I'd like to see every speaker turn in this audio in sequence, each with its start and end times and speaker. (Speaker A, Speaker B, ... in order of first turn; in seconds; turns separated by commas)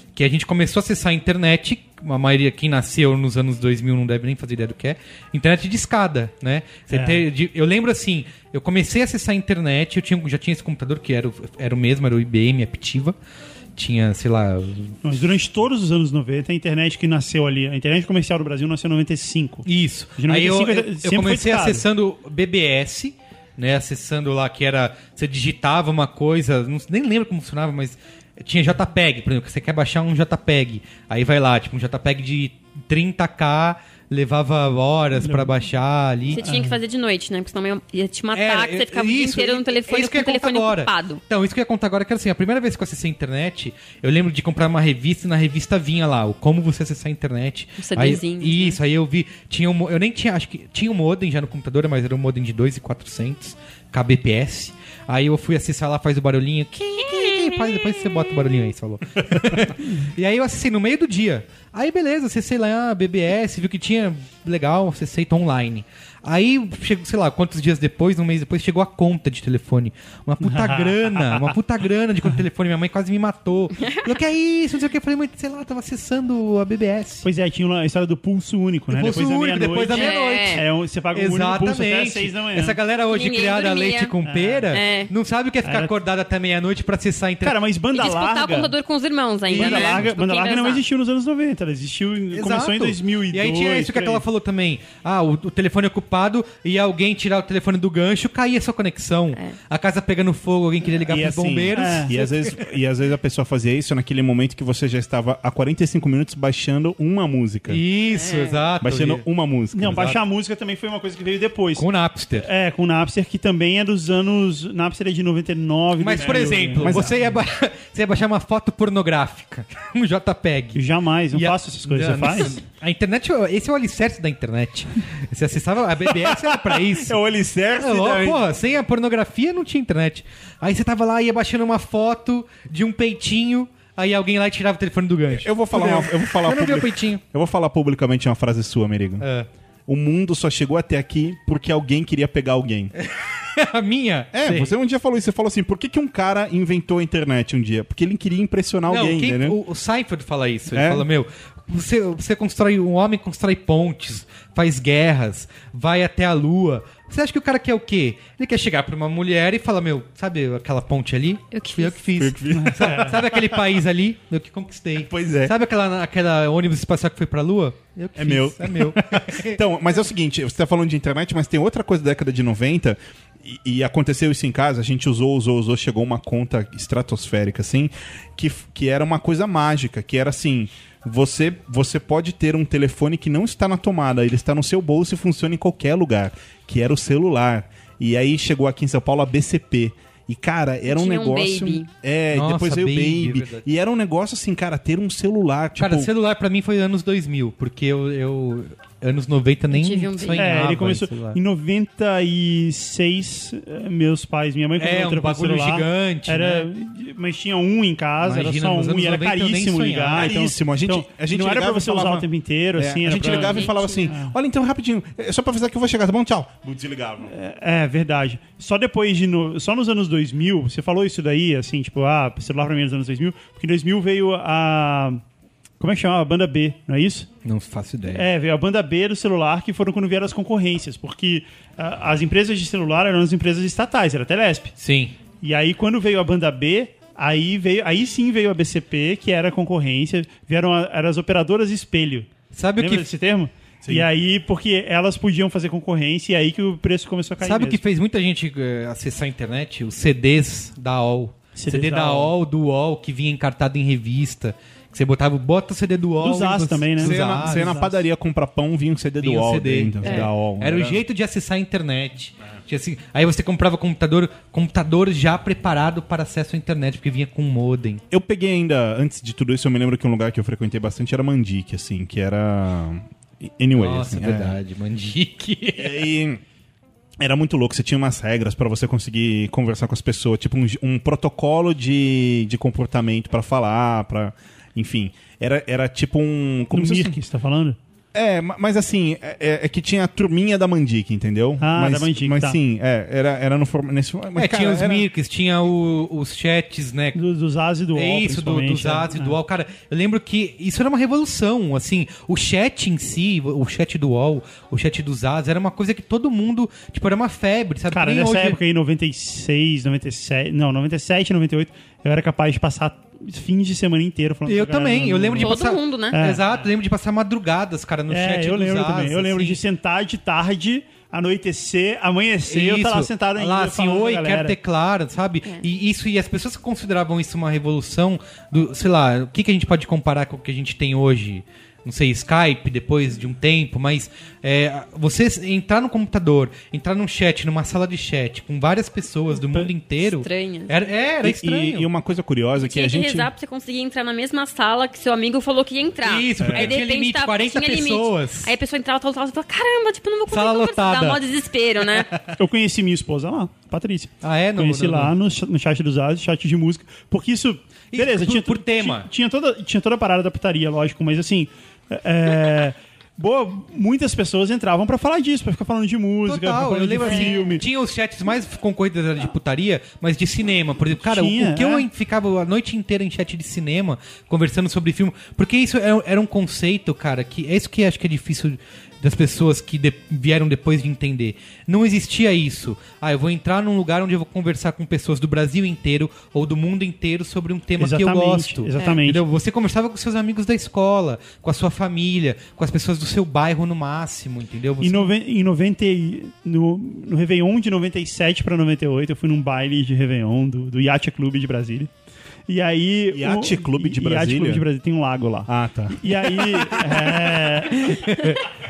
Speaker A: 0.2-13.2, Speaker B: 6.9-7.2, Speaker A: 13.8-15.0, Speaker B: 15.0-19.7, Speaker A: 19.6-36.4, Speaker B: 20.2-21.9, Speaker B: 35.2-35.6, Speaker C: 36.3-41.2, Speaker B: 36.4-36.8, Speaker A: 38.3-77.3, Speaker C: 47.8-48.8, Speaker C: 57.1-57.9, Speaker D: 59.3-59.6, Speaker B: 70.4-71.5, Speaker B: 77.2-82.8, Speaker A: 78.9-87.6, Speaker C: 79.9-80.6, Speaker C: 83.1-84.1, Speaker B: 84.2-84.7, Speaker C: 84.7-85.1, Speaker B: 85.6-85.9, Speaker B: 87.4-88.7, Speaker C: 87.9-90.8, Speaker A: 89.5-90.1, Speaker B: 89.5-94.2, Speaker A: 92.3-102.7, Speaker D: 101.1-107.8, Speaker B: 101.7-102.1, Speaker A: 107.7-109.2, Speaker C: 108.1-108.6, Speaker D: 108.8-110.1, Speaker B: 109.7-111.9, Speaker A: 109.8-110.2, Speaker A: 111.8-112.5, Speaker B: 112.4-117.2, Speaker A: 116.0-120.8, Speaker D: 116.2-117.2, Speaker B: 120.8-122.6, Speaker A: 121.3-127.2, Speaker D: 126.3-128.4, Speaker A: 127.8-137.2, Speaker D: 135.3-139.3, Speaker A: 139.2-139.5, Speaker D: 139.9-142.9, Speaker A: 143.0-144.7, Speaker D: 144.3-149.6, Speaker A: 148.9-169.6, Speaker D: 150.7-151.1, Speaker C: 161.5-162.0, Speaker D: 162.2-163.6, Speaker B: 162.6-163.1, Speaker D: 165.0-165.5, Speaker D: 168.2-196.1, Speaker C: 190.9-191.9, Speaker A: 192.3-193.7, Speaker A: 195.8-201.4, Speaker C: 199.7-200.6, Speaker B: 200.4-214.3, Speaker A: 204.8-206.7, Speaker A: 208.2-210.3, Speaker D: 210.2-217.3, Speaker C: 213.1-214.1, Speaker B: 217.3-225.2, Speaker B: 225.8-227.3, Speaker A: 227.4-228.3, Speaker B: 228.1-234.7, Speaker A: 234.8-235.1, Speaker B: 235.4-247.8, Speaker A: 242.5-243.1, Speaker A: 247.4-257.8, Speaker B: 251.6-252.3, Speaker B: 256.2-258.0, Speaker D: 257.0-261.0, Speaker A: 259.2-268.0, Speaker D: 268.1-274.6, Speaker A: 273.8-276.1, Speaker D: 275.8-276.4, Speaker D: 277.2-287.2, Speaker B: 286.7-287.8, Speaker D: 288.1-295.1, Speaker B: 291.6-292.6, Speaker A: 294.4-297.2, Speaker B: 297.1-299.4, Speaker A: 297.9-308.6, Speaker B: 307.9-315.6, Speaker A: 314.5-319.6, Speaker C: 315.4-316.2, Speaker B: 316.1-316.7, Speaker B: 318.1-324.6, Speaker A: 322.5-341.9, Speaker C: 340.0-340.7, Speaker D: 341.2-343.3, Speaker C: 342.6-352.1, Speaker A: 346.0-348.5, Speaker D: 346.4-346.8, Speaker A: 350.3-351.2, Speaker A: 351.9-352.4, Speaker B: 352.4-367.6, Speaker A: 354.2-355.1, Speaker A: 357.9-359.1, Speaker A: 366.2-395.1, Speaker C: 367.0-367.6, Speaker B: 370.9-371.9, Speaker B: 387.8-389.2, Speaker B: 394.8-401.9, Speaker B: 402.5-408.1, Speaker D: 403.1-404.6, Speaker D: 405.5-407.2, Speaker A: 407.7-408.4